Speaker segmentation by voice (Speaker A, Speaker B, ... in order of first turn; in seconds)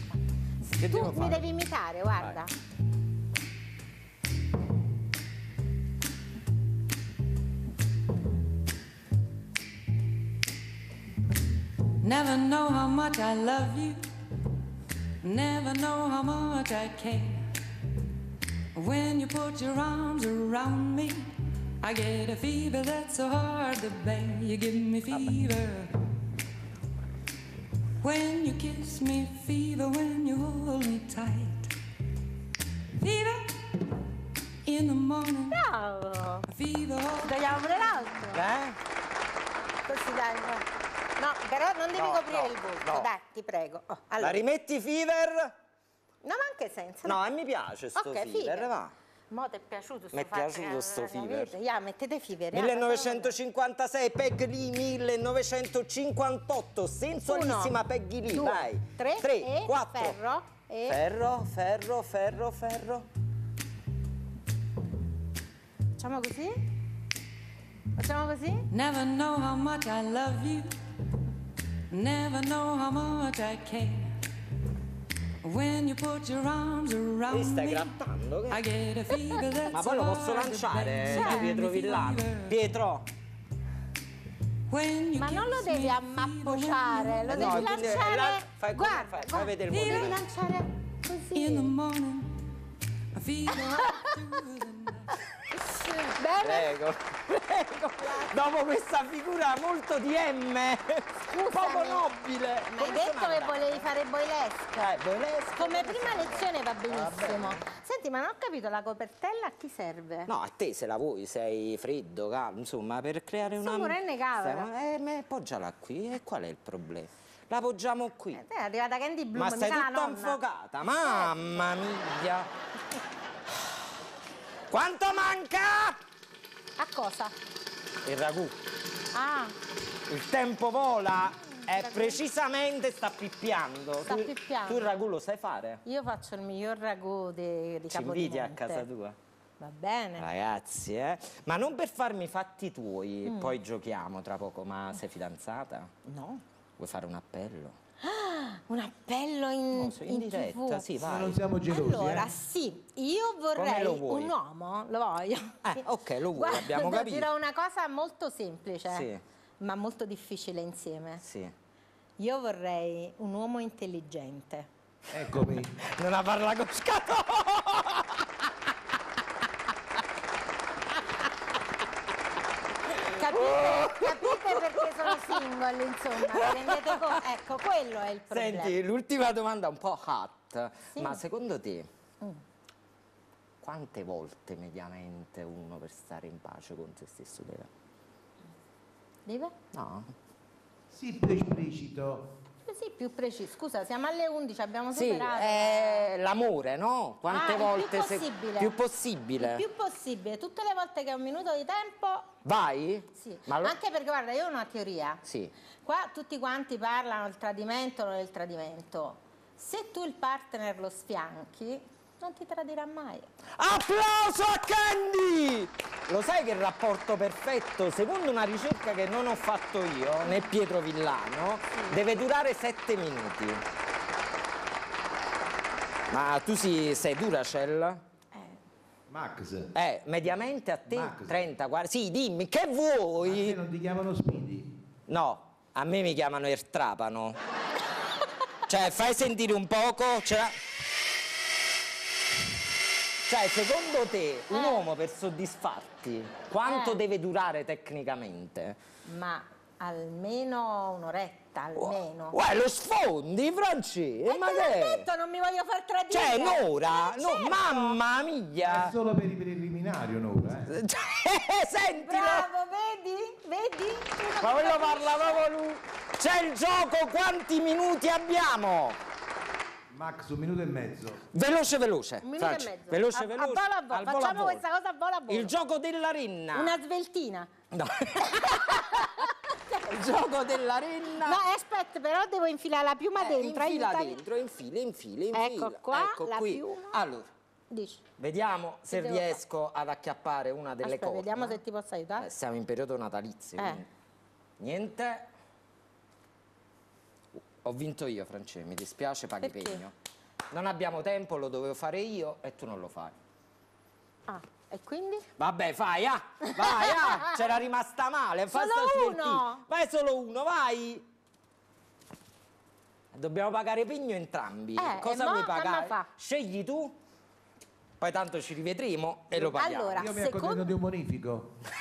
Speaker A: 0.7-1.4, 38.3-38.8, 41.9-43.1, 44.2-45.5, 47.0-48.9, 50.1-51.5, 52.5-60.2, 60.9-63.1, 77.3-78.6, 79.7-83.1, 87.3-90.2, 96.4-103.9, 104.8-107.6, 110.3-118.4, 119.3-122.5, 124.7-126.0, 128.0-128.6, 130.1-135.8, 137.9-139.2, 140.2-145.9, 146.8-147.8, 149.7-151.4, 153.6-154.3, 155.6-157.3, 158.9-159.2, 161.2-161.5, 165.8-168.5, 170.9-171.3, 172.9-175.4, 176.2-177.0, 178.3-181.9, 183.6-187.7, 189.7-190.1, 194.9-199.6, 202.4-203.8, 205.2-205.5, 213.6-223.6, 226.1-228.0, 229.7-233.6, 235.1-237.4, 238.7-240.6, 243.3-248.8, 251.8-255.1, 256.1-258.9, 260.7-262.5, 264.4-269.0, 271.3-274.6, 275.3-276.8, 277.7-279.3, 279.8-281.4, 283.2-287.3, 288.2-291.6, 292.2-293.9, 294.6-295.3, 297.4-299.9, 300.5-303.1, 305.4-311.0, 313.1-317.0, 318.0-320.1
Speaker B: 0.8-2.5, 35.5-36.5, 37.2-38.4, 39.9-40.7, 41.2-44.4, 46.2-47.2, 48.0-48.7, 49.3-53.4, 57.2-57.7, 58.3-61.0, 66.0-66.6, 68.0-68.7, 81.1-81.5, 85.2-91.7, 93.7-94.2, 95.7-96.8, 98.0-98.3, 101.3-102.2, 102.7-104.9, 105.6-110.3, 113.6-114.7, 118.3-120.4, 121.0-121.4, 126.8-127.3, 129.1-129.5, 131.6-132.2, 134.0-134.9, 135.9-138.9, 139.6-140.2, 143.2-143.5, 146.0-146.4, 148.0-150.9, 151.7-155.8, 156.3-159.1, 159.6-161.2, 162.2-164.7, 173.1-178.8, 180.9-181.2, 189.2-189.5, 192.6-196.1, 197.3-198.7, 199.4-202.3, 203.2-205.2, 205.8-213.3, 221.7-222.0, 244.5-244.8, 246.6-247.0, 249.1-252.4, 254.2-258.0, 262.0-265.4, 272.2-275.5, 276.5-277.5, 278.3-279.3, 281.2-284.2, 285.3-287.0, 287.7-288.0, 288.9-289.4, 290.8-292.3, 293.6-293.8, 299.4-299.9, 304.3-305.3, 306.6-307.4, 308.5-309.6, 314.8-316.1, 319.4-320.7
Speaker C: 12.0-14.0, 15.2-17.5, 18.7-26.0, 28.0-31.7, 32.9-33.8, 34.6-35.6, 36.5-38.1, 68.7-70.7, 71.9-74.2, 75.4-77.9, 78.5-82.6, 84.7-87.9, 89.7-90.2, 91.3-92.5, 93.1-95.2
Speaker D: 151.0-152.3, 165.1-165.8, 190.9-192.4, 229.1-229.7, 230.9-231.5, 233.2-234.8, 258.6-260.7, 269.9-271.2, 319.4-321.6